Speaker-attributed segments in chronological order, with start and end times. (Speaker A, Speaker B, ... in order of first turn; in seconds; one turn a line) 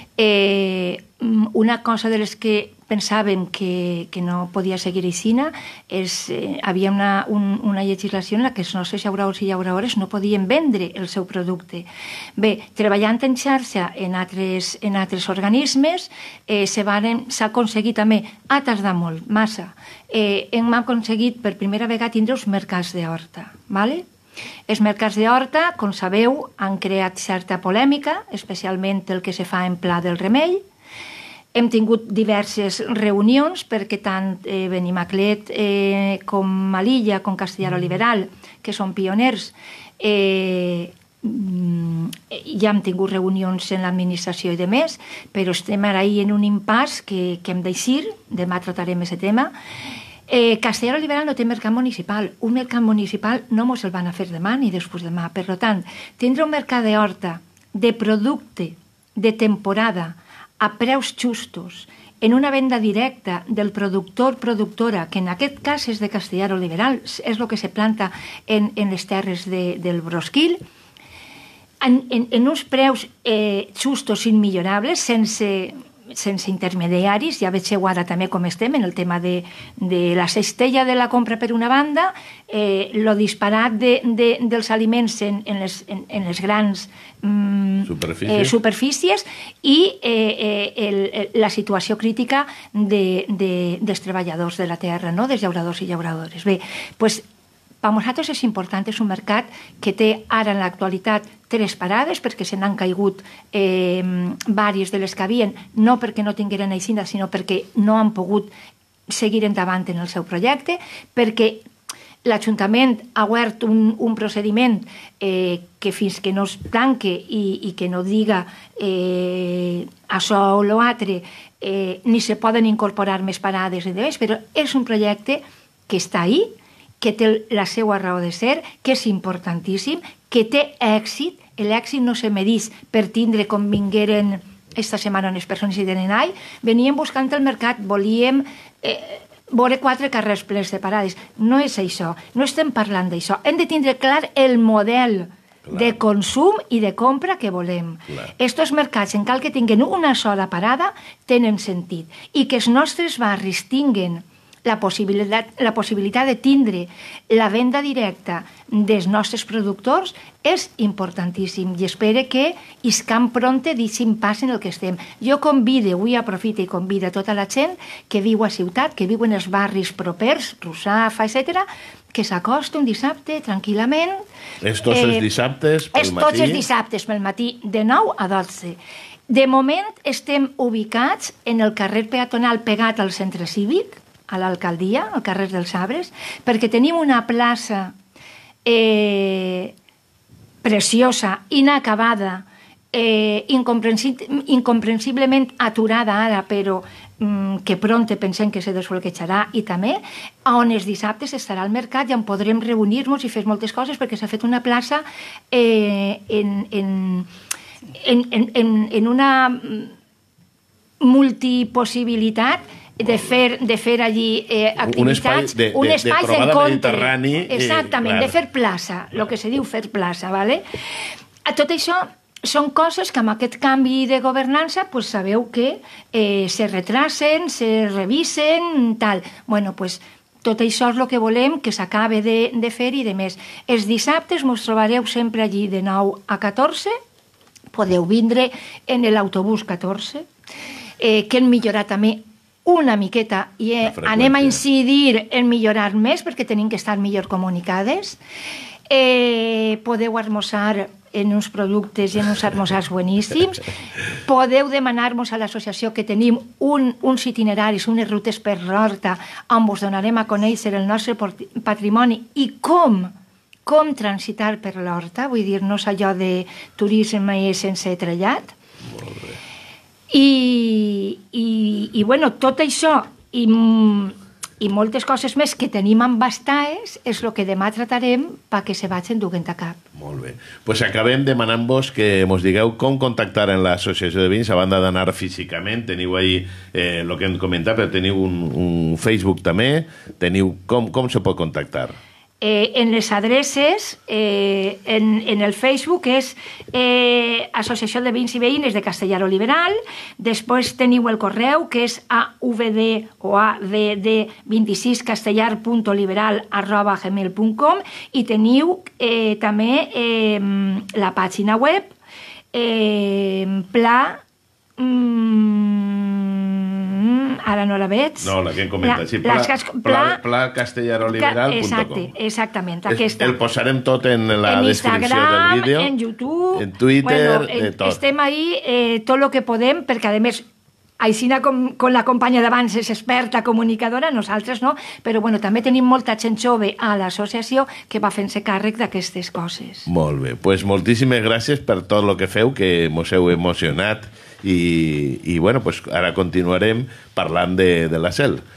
Speaker A: 0.2-24.1
Speaker A: 24.7-30.6
Speaker A: 31.5-49.5
Speaker A: 50.3-70.6
Speaker A: 71.8-97.2
Speaker B: 87.9-88.6
Speaker A: 97.8-108.5
Speaker A: 109.1-111.7
Speaker A: 112.2-174.2
Speaker B: 145.7-145.9
Speaker B: 174.6-176.6
Speaker A: 174.9-175.3
Speaker A: 175.9-178.8
Speaker A: 179.3-187.9
Speaker A: 188.7-189.7
Speaker A: 190.6-207.3
Speaker A: 208.0-209.9
Speaker A: 211.0-220.6
Speaker B: 214.8-218.4
Speaker A: 221.5-236.9
Speaker A: 237.7-240.3
Speaker A: 241.0-248.2
Speaker B: 243.9-244.6
Speaker A: 248.9-253.7
Speaker A: 254.2-263.1
Speaker A: 263.6-268.6
Speaker B: 268.9-269.4
Speaker A: 270.1-279.8
Speaker B: 279.9-292.0
Speaker A: 292.4-311.9
Speaker A: 312.5-314.2
Speaker A: 314.8-320.2
Speaker B: 318.2-322.1
Speaker A: 321.1-323.4
Speaker B: 322.9-325.9
Speaker A: 324.5-330.5
Speaker B: 326.5-328.0
Speaker A: 331.0-339.9
Speaker B: 339.9-348.4